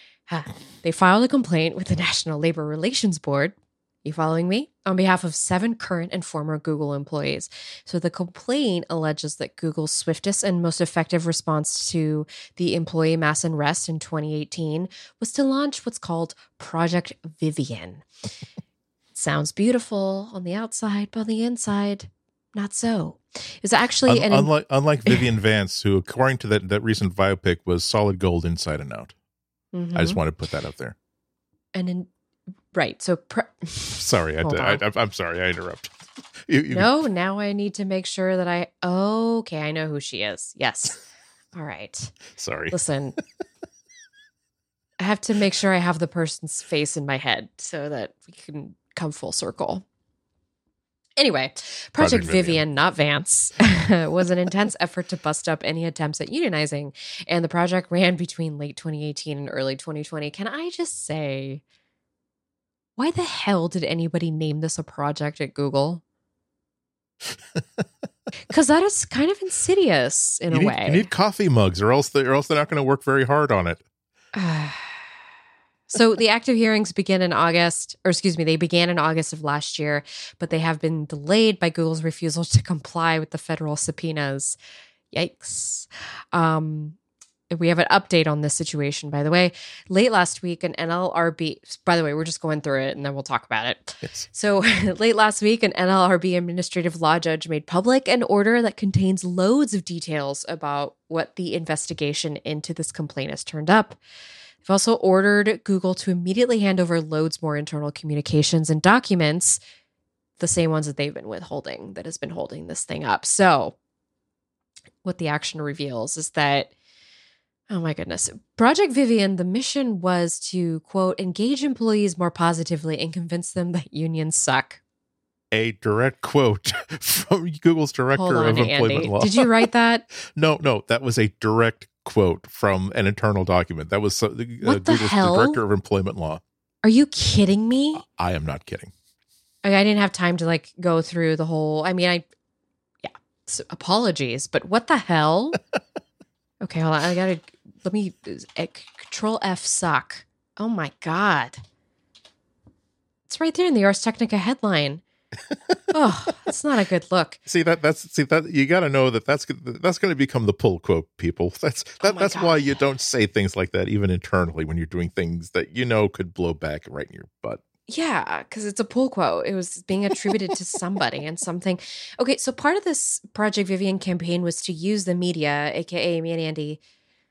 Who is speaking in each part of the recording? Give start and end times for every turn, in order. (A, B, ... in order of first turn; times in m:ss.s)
0:00.3-0:18.1 A
0:19.1-0:24.5 A
0:24.1-0:29.1 B
0:29.7-0:30.2 A
0:29.9-0:31.0 B
0:31.8-0:32.1 A
0:32.7-0:34.8 A
0:34.0-0:36.9 B
0:36.7-0:41.0 A
0:41.5-0:42.2 A
0:42.4-0:43.2 B
0:42.7-0:43.2 A
0:45.0-0:49.8 A
0:51.2-1:01.6 A
0:52.0-0:52.6 B
1:03.0-1:06.0 A
1:08.5-1:11.1 A
1:10.5-1:13.8 B
1:14.4-1:15.0 A
1:15.9-1:24.6 A
1:25.1-1:27.0 A
1:27.5-1:44.0 A
1:44.6-1:49.6 A
1:50.4-1:53.8 A
1:55.0-1:56.7 A
1:57.7-2:04.8 A
2:05.5-2:09.5 B
2:08.2-2:10.1 A
2:10.3-2:16.4 B
2:14.6-2:15.6 A
2:16.8-2:18.0 A
2:18.0-2:18.9 B
2:19.6-2:22.2 A
2:23.0-2:25.6 A
2:26.6-2:31.6 A
2:33.3-2:35.0 A
2:35.5-2:35.8 B
2:35.9-2:37.4 A
2:37.5-2:47.6 B
2:42.0-2:42.7 A
2:47.9-2:56.8 A